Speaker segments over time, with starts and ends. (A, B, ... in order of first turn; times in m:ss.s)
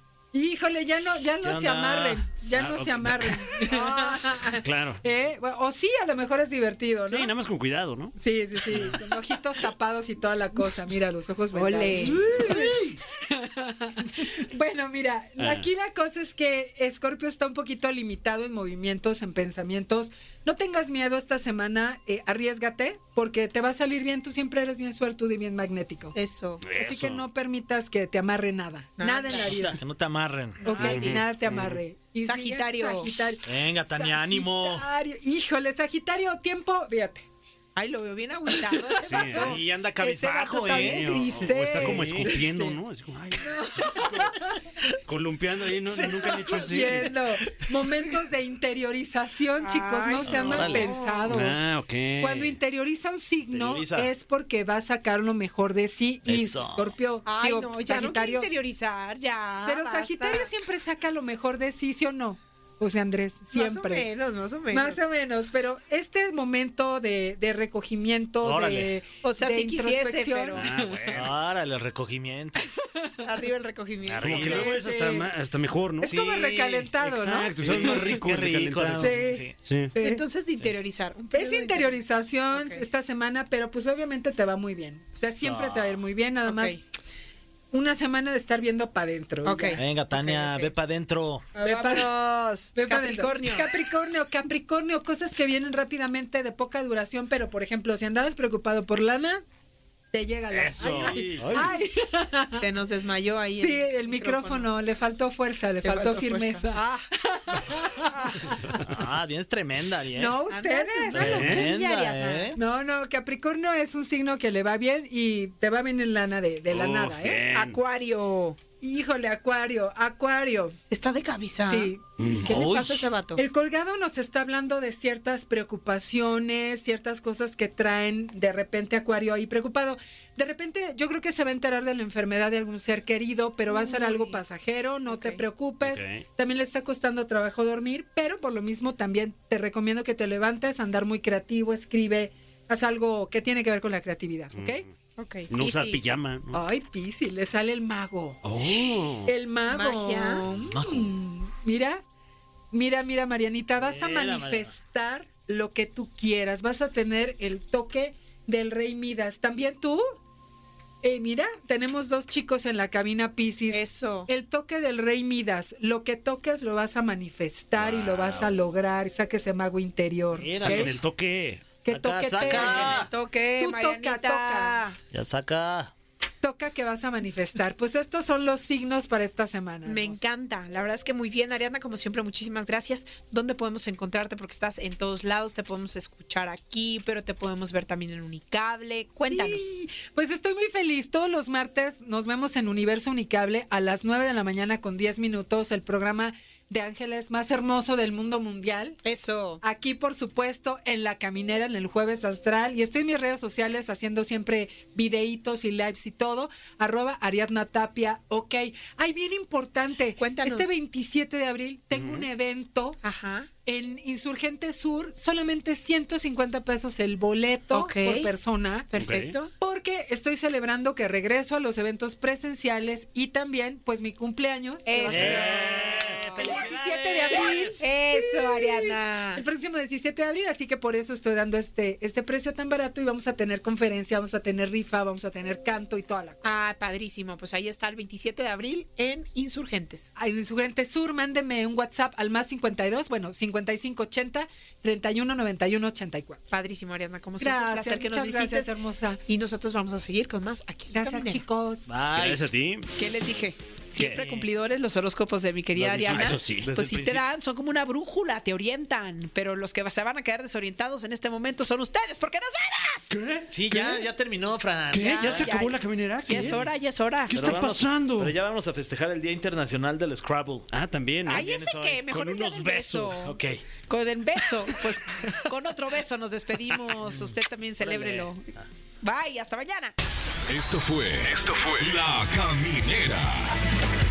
0:00.3-0:07.3 A
0:01.4-0:02.8 B
0:02.5-0:03.5 C
0:03.6-0:04.3 D
0:04.5-0:05.0 C
0:07.1-0:08.1 C
0:08.1-0:26.2 A
0:11.5-0:12.7 D
0:15.4-0:15.7 C
0:26.1-0:26.7 D
0:26.6-0:27.2 C
0:26.7-0:29.8 A
0:29.0-0:29.6 D
0:29.3-0:30.6 B
0:30.6-0:31.2 D
0:30.6-0:37.2 A
0:30.8-0:31.8 C
0:32.2-0:33.3 D
0:33.4-0:34.8 B
0:37.7-0:42.7 D
0:39.0-0:39.6 C
0:39.3-0:42.4 B
0:40.6-0:44.5 C
0:41.5-0:42.6 A
0:43.4-0:44.6 A
0:45.0-0:47.2 C
0:45.9-0:46.5 B
0:46.2-0:47.0 D
0:46.4-0:51.6 A
0:49.6-0:51.3 D
0:50.2-0:50.9 B
0:51.3-0:52.6 C
0:52.2-0:58.5 A
0:53.5-0:54.1 B
0:56.2-0:56.9 B
0:57.2-1:00.5 D
0:59.6-1:04.1 A
1:03.5-1:05.0 D
1:04.7-1:11.2 A
1:08.4-1:08.9 B
1:09.2-1:10.7 D
1:10.5-1:11.3 C
1:11.1-1:12.7 B
1:12.6-1:13.3 A
1:13.2-1:14.8 D
1:14.1-1:14.8 B
1:14.1-1:16.1 C
1:14.6-1:15.3 A
1:16.0-1:16.9 B
1:16.0-1:18.1 A
1:17.0-1:19.9 C
1:17.6-1:19.6 B
1:19.0-1:20.2 A
1:20.0-1:22.0 D
1:21.3-1:26.8 A
1:22.5-1:22.8 D
1:25.3-1:26.0 B
1:26.4-1:26.8 D
1:27.7-1:29.8 A
1:29.4-1:30.7 D
1:29.8-1:31.5 B
1:31.5-1:33.7 D
1:31.6-1:32.2 A
1:32.7-1:39.4 A
1:40.1-1:42.7 A
1:40.5-1:41.8 B
1:40.7-1:41.9 C
1:42.5-1:44.7 D
1:43.6-1:48.8 A
1:45.8-1:47.1 D
1:48.8-1:50.4 B
1:50.1-1:51.7 A
1:50.5-1:52.6 D
1:51.1-1:52.6 B
1:51.2-1:51.7 C
1:52.5-1:57.5 A
1:56.7-1:57.8 C
1:57.5-1:58.6 D
1:58.7-2:00.8 A
2:00.9-2:01.9 D
2:01.6-2:24.8 A
2:02.2-2:02.5 C
2:02.4-2:02.9 B
2:02.5-2:03.4 D
2:13.7-2:14.4 D
2:15.1-2:15.4 D
2:15.8-2:16.2 C
2:24.6-2:24.8 C
2:25.2-2:26.1 D
2:25.5-2:26.6 C
2:26.5-2:28.4 A
2:28.4-2:29.3 C
2:29.2-2:32.0 A
2:29.7-2:30.5 D
2:30.6-2:31.1 B
2:32.7-2:40.0 A
2:33.8-2:34.7 B
2:41.0-2:51.0 A
2:43.7-2:44.3 D
2:47.9-2:48.4 C
2:48.0-2:48.5 B
2:50.4-2:51.0 B
2:50.6-2:51.6 C
2:51.8-2:54.8 A
2:51.9-2:53.1 B
2:52.4-2:55.0 D
2:55.1-2:55.9 B
2:56.4-3:00.2 A
2:59.8-3:09.7 D
3:09.3-3:19.0 A
3:19.0-3:19.6 D
3:19.6-3:33.0 A
3:30.2-3:30.7 D
3:31.9-3:32.3 C
3:33.0-3:33.5 D
3:33.6-3:45.5 A
3:37.7-3:38.3 D
3:38.9-3:39.5 D
3:39.0-3:39.3 C
3:44.8-3:46.4 D
3:45.1-3:47.8 C
3:45.1-3:47.4 B
3:46.4-3:56.4 A
3:47.8-3:49.4 D
3:56.4-4:00.1 D
4:00.2-4:06.4 A
4:06.5-4:08.7 D
4:07.4-4:09.2 A
4:09.3-4:11.4 D
4:10.9-4:11.9 A
4:11.9-4:12.4 B
4:12.1-4:12.9 C
4:13.0-4:23.1 D
4:14.0-4:14.2 C
4:14.2-4:14.4 B
4:15.7-4:17.2 B
4:16.1-4:16.7 C
4:23.1-4:24.0 C
4:23.5-4:25.6 B
4:24.9-4:26.7 C
4:25.1-4:27.5 D
4:26.3-4:26.6 B
4:27.3-4:28.4 C
4:27.3-4:30.7 B
4:30.7-4:31.5 C
4:31.2-4:38.5 D
4:31.3-4:32.0 B
4:32.0-4:33.3 C
4:33.2-4:33.6 B
4:37.0-4:38.3 B
4:39.0-4:39.9 D
4:40.5-4:43.5 E